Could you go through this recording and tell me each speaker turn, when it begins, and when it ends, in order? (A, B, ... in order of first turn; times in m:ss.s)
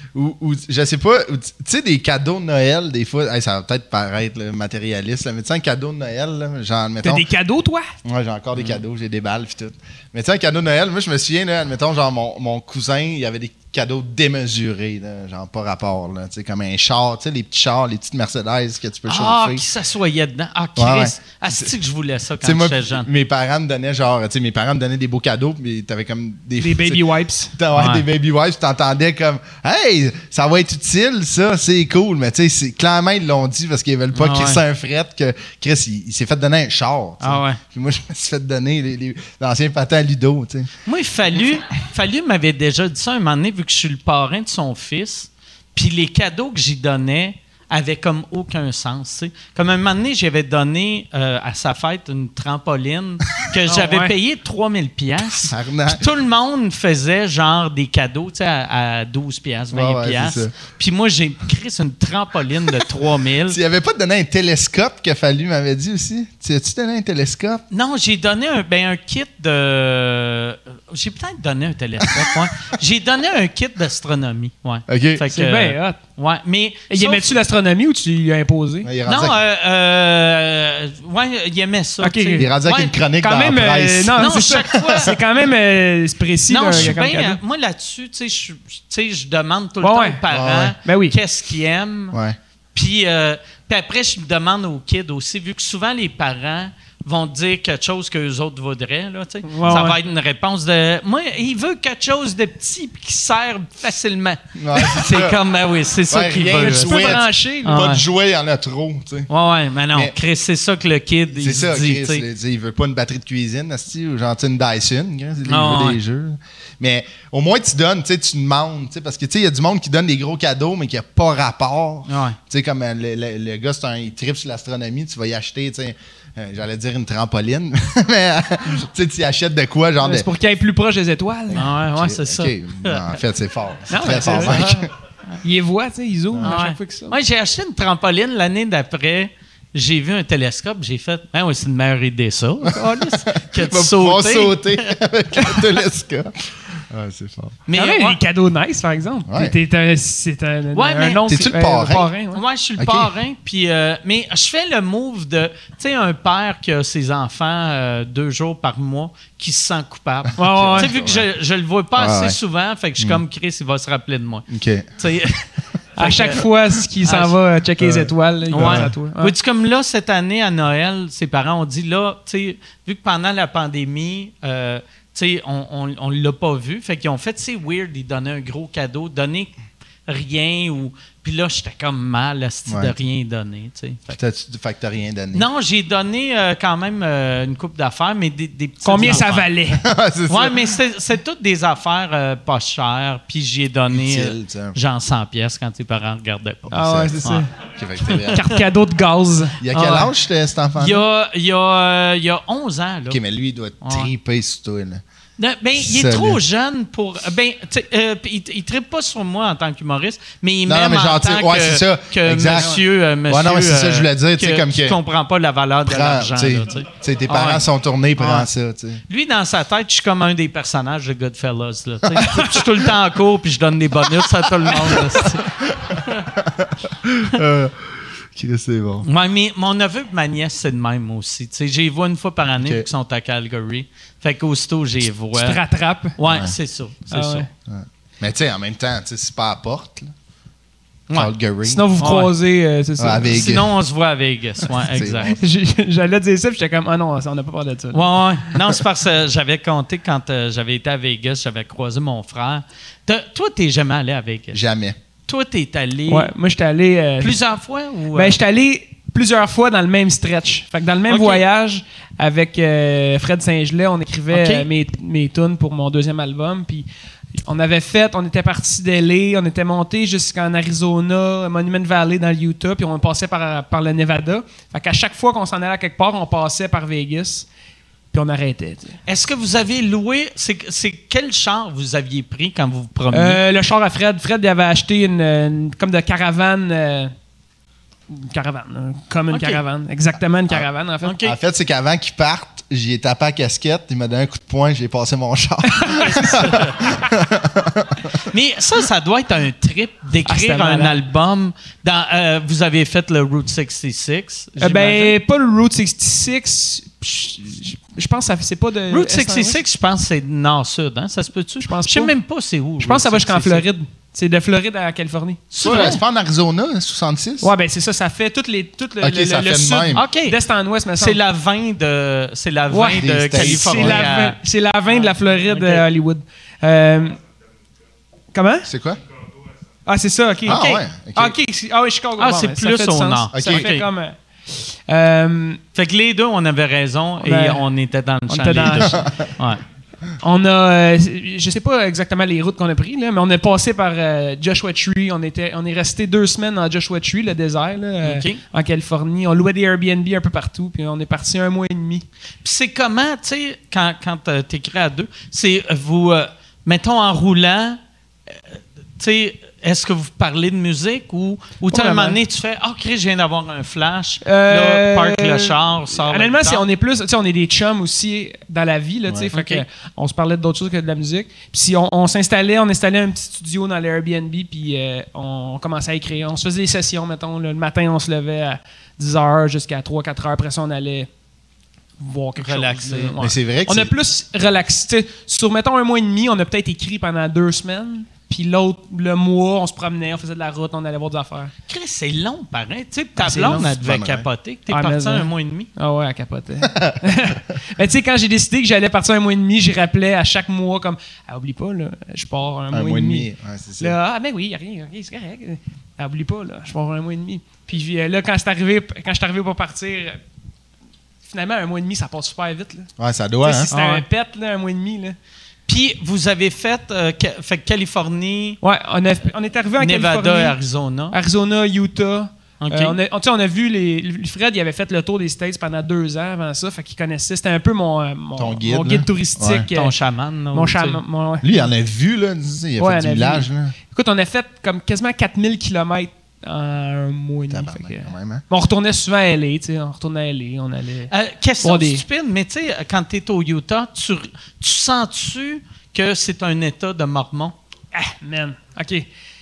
0:00.1-0:07.2 A
0:07.0-0:07.9 B
0:08.0-0:19.6 A
0:19.0-0:23.1 C
0:20.8-0:21.7 A
0:22.4-0:40.7 A
0:26.6-0:27.5 B
0:27.7-0:28.0 C
0:34.1-0:34.6 C
0:37.2-0:37.6 C
0:40.8-1:03.6 C
0:53.7-0:54.1 B
0:55.4-0:56.0 A
0:59.7-1:00.5 A
1:03.5-1:07.6 A
1:07.7-1:17.3 C
1:12.0-1:12.3 A
1:14.9-1:15.2 A
1:15.3-1:16.0 B
1:16.9-1:18.9 B
1:18.8-1:19.4 A
1:19.0-1:22.9 C
1:22.0-1:22.5 B
1:22.4-1:25.2 A
1:23.2-1:27.4 B
1:24.2-1:25.1 C
1:26.5-1:32.2 C
1:29.8-1:30.2 B
1:30.3-1:30.8 A
1:30.8-1:31.1 B
1:32.1-1:32.4 A
1:32.7-1:47.0 C
1:39.4-1:40.0 B
1:44.6-1:45.4 A
1:46.1-1:49.3 A
1:46.6-1:47.9 B
1:47.6-1:48.0 C
1:49.3-1:52.2 C
1:51.3-2:10.3 A
1:55.5-1:56.0 C
2:02.1-2:02.4 C
2:10.0-2:11.7 B
2:11.5-2:14.9 A
2:11.5-2:13.0 C
2:13.9-2:14.8 B
2:14.2-2:14.8 C
2:15.4-2:17.1 B
2:16.4-2:24.9 C
2:23.1-2:27.6 A
2:27.7-2:28.2 C
2:27.7-2:32.4 B
2:29.3-2:29.5 A
2:30.7-2:31.5 C
2:31.2-2:32.1 A
2:32.3-2:44.4 C
2:32.8-2:33.1 A
2:40.4-2:40.9 B
2:40.4-2:41.3 A
2:42.0-2:42.4 A
2:44.5-2:44.9 A
2:45.0-2:45.4 C
2:46.0-2:49.3 B
2:46.0-2:46.4 C
2:47.0-2:47.4 C
2:47.8-2:48.9 A
2:48.5-2:59.5 C
3:00.1-3:04.2 C
3:02.7-3:02.9 A
3:04.1-3:05.5 A
3:05.3-3:09.5 C
3:08.8-3:09.8 B
3:09.0-3:10.7 A
3:10.3-3:17.4 C
3:13.9-3:14.8 A
3:16.7-3:18.4 A
3:16.7-3:17.5 B
3:18.2-3:19.6 B
3:19.6-3:21.0 A
3:19.7-3:20.1 C
3:20.8-3:23.2 C
3:23.1-3:25.0 A
3:23.8-3:24.1 C
3:25.4-3:37.6 C
3:25.8-3:26.4 A
3:30.6-3:35.0 A
3:35.8-3:39.0 A
3:38.2-3:38.5 C
3:39.1-3:46.3 C
3:42.2-3:42.5 B
3:44.2-3:49.0 A
3:49.0-3:55.6 C
3:55.3-3:56.2 B
3:56.2-3:57.4 C
3:56.2-3:56.5 A
3:57.1-3:57.5 B
3:57.7-4:00.1 A
4:01.1-4:01.8 A
4:01.6-4:03.5 B
4:02.0-4:02.3 C
4:03.0-4:03.7 A
4:03.3-4:05.4 C
4:04.8-4:05.4 A
4:05.4-4:08.0 B
4:07.9-4:14.6 C
4:14.5-4:15.0 A
4:15.2-4:16.3 C
4:16.1-4:17.4 B
4:17.2-4:18.4 C
4:18.1-4:26.9 B
4:21.1-4:21.4 C
4:24.3-4:24.7 C
4:27.4-4:37.5 B
4:38.1-4:39.0 B
4:39.0-4:43.4 C
4:43.1-4:47.1 B
4:48.1-4:51.2 B
4:49.3-4:49.6 C
4:51.0-4:51.4 C
4:51.2-4:58.2 A
4:55.7-4:56.5 B
4:56.3-4:56.7 C
4:58.2-5:05.2 C
5:00.2-5:01.0 B
5:04.6-5:09.6 B
5:08.9-5:13.6 C
5:11.6-5:12.1 B
5:12.8-5:15.9 B
5:15.5-5:16.0 C
5:15.6-5:17.5 A
5:17.4-5:21.2 B
5:19.0-5:20.0 A
5:19.9-5:20.4 C
5:21.0-5:24.4 C
5:22.7-5:27.2 B
5:23.0-5:24.0 A
5:24.9-5:25.8 C
5:28.3-5:28.7 B
5:28.6-5:29.0 A
5:29.8-5:35.6 B
5:30.4-5:31.4 A
5:30.5-5:30.8 C
5:32.2-5:33.9 C
5:33.3-5:33.7 A
5:35.7-5:39.6 C
5:37.2-5:37.6 B
5:38.3-5:39.1 B
5:38.8-5:39.1 A
5:40.2-5:52.0 B
5:48.0-5:48.4 C
5:52.4-6:06.6 C
6:01.7-6:02.2 B
6:04.2-6:21.1 B
6:09.3-6:09.6 C
6:22.0-6:31.5 B
6:22.4-6:23.1 C
6:23.2-6:23.9 A
6:31.7-6:35.7 C
6:33.2-6:33.7 B
6:33.6-6:34.2 A
6:34.7-6:43.3 B
6:36.6-6:36.9 A
6:42.7-6:44.0 A
6:43.8-6:50.2 B
6:51.2-6:52.9 B
6:53.0-6:53.7 A
6:53.4-6:55.2 B
6:53.7-6:54.0 C
6:55.7-6:58.6 C
6:58.6-7:00.6 B
6:59.8-7:01.2 C
7:01.1-7:09.9 B
7:02.6-7:03.0 C
7:08.4-7:09.7 A
7:09.7-7:11.0 C
7:10.5-7:11.7 B
7:11.4-7:13.7 A
7:12.8-7:21.1 B
7:17.5-7:18.4 A
7:21.1-7:27.5 C
7:21.6-7:22.0 B
7:27.9-7:29.0 B